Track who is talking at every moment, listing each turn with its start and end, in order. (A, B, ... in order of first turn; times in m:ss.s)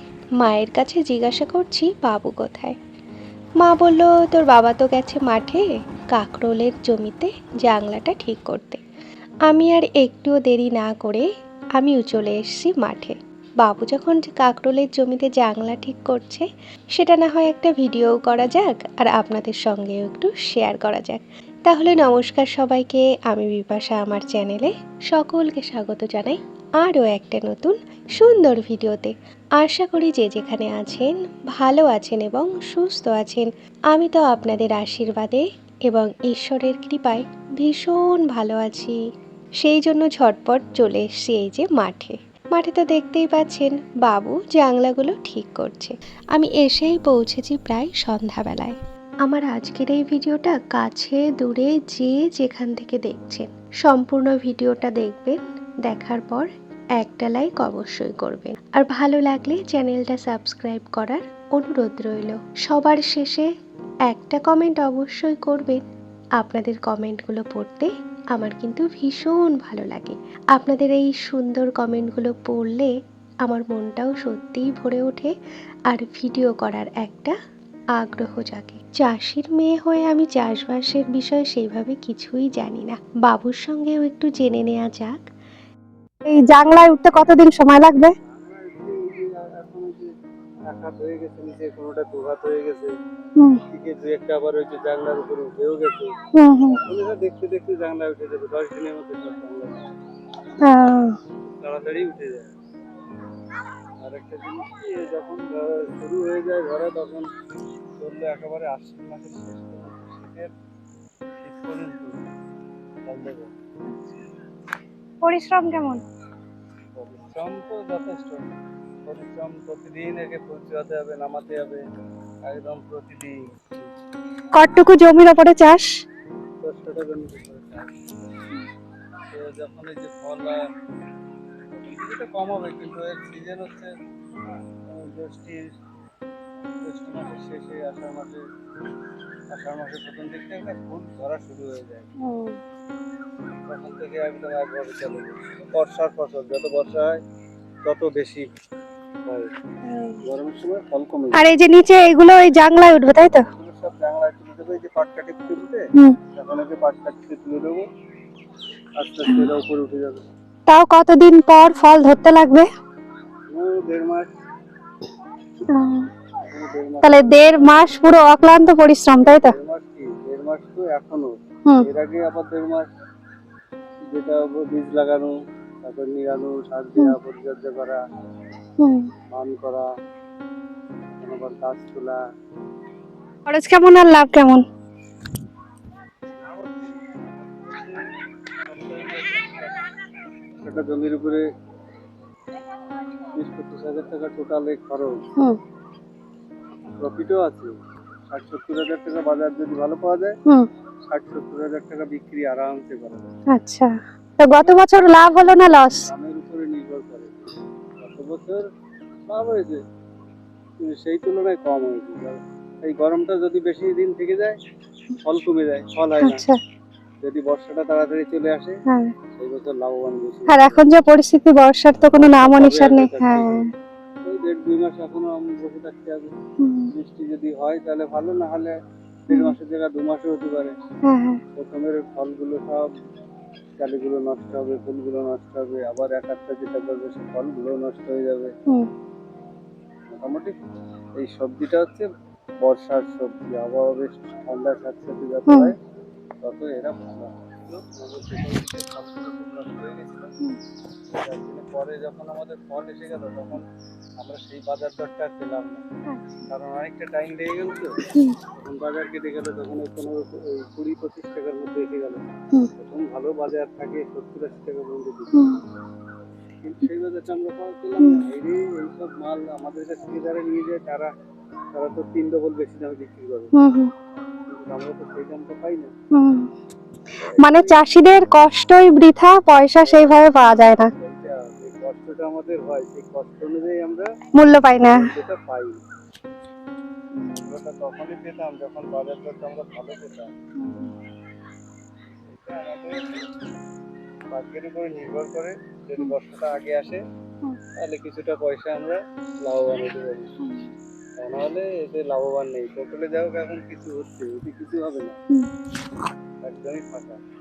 0:00.4-0:02.8 A
0:03.6-0:08.8 A
0:09.5-0:39.0 A
0:39.6-0:56.5 A
0:57.0-1:03.5 A
1:04.1-1:05.8 A
1:06.4-1:12.9 A
1:13.4-1:15.3 A
1:15.9-1:17.3 A
1:18.0-1:25.2 A
1:26.3-1:28.1 B
1:28.2-1:30.0 C
1:30.7-1:32.9 C
1:33.7-1:36.1 C
1:36.3-1:36.8 B
1:36.7-1:39.8 C
1:40.6-1:41.1 B
1:41.6-1:42.5 C
1:44.0-1:47.2 C
1:48.0-1:50.5 C
1:51.4-1:52.1 C
1:53.0-1:53.5 C
1:53.9-1:54.2 B
1:55.2-1:56.0 B
1:57.0-1:58.5 C
1:59.1-2:01.8 C
2:02.5-2:03.9 C
2:04.6-2:05.9 B
2:06.6-2:07.9 C
2:09.3-2:10.6 C
2:11.7-2:13.9 C
2:14.9-2:15.7 C
2:16.8-2:18.4 C
2:19.5-2:22.1 C
2:22.2-2:22.6 B
2:23.7-2:27.2 C
2:27.8-2:28.4 C
2:29.8-2:30.2 B
2:30.2-2:31.4 C
2:31.3-2:33.4 B
2:33.5-2:35.8 C
2:36.3-2:37.8 C
2:39.0-2:40.2 C
2:40.7-2:42.7 B
2:43.5-2:44.3 C
2:45.7-2:46.1 B
2:46.5-2:48.0 C
2:47.0-2:49.5 B
2:49.2-2:52.9 C
2:54.1-2:55.3 C
2:55.8-2:58.0 C
2:58.8-2:59.0 B
2:59.3-2:59.8 C
3:01.2-3:02.2 C
3:03.5-3:04.6 B
3:06.4-3:08.0 C
3:08.7-3:09.8 C
3:10.6-3:11.4 C
3:13.4-3:15.2 C
3:17.0-3:17.7 C
3:18.3-3:20.3 C
3:21.1-3:23.3 C
3:23.5-3:26.0 B
3:24.5-3:27.4 C
3:28.0-3:28.6 C
3:29.3-3:29.8 C
3:30.8-3:34.6 C
3:35.2-3:36.4 C
3:36.2-3:36.6 B
3:37.2-3:38.7 C
3:38.9-3:39.1 B
3:39.4-3:40.9 C
3:40.5-3:43.6 B
3:42.1-3:43.7 C
3:44.2-3:46.3 C
3:46.6-3:46.9 B
3:46.9-3:48.7 C
3:49.3-3:50.7 C
3:51.1-3:51.4 B
3:51.6-3:52.8 C
3:53.8-3:58.5 C
4:00.1-4:00.5 C
4:01.2-4:02.1 C
4:02.6-4:05.8 C
4:05.5-4:05.7 B
4:06.4-4:10.3 C
4:11.1-4:13.6 C
4:14.2-4:15.8 C
4:16.1-4:16.5 B
4:16.5-4:17.9 C
4:18.5-4:22.2 C
4:22.8-4:25.5 C
4:25.3-4:25.6 B
4:26.6-4:31.1 C
4:31.7-4:33.5 C
4:33.6-4:33.9 B
4:34.5-4:35.9 C
4:36.1-4:36.5 B
4:37.2-4:37.8 C
4:37.4-4:40.9 B
4:39.8-4:44.1 C
4:44.4-4:45.0 B
4:44.8-4:45.8 C
4:47.2-4:47.4 B
4:47.3-4:50.3 C
4:50.6-4:50.9 B
4:52.2-4:53.2 C
4:54.3-4:57.0 C
4:57.8-5:00.3 C
5:00.4-5:00.7 B
5:01.2-5:05.2 C
5:06.4-5:07.2 C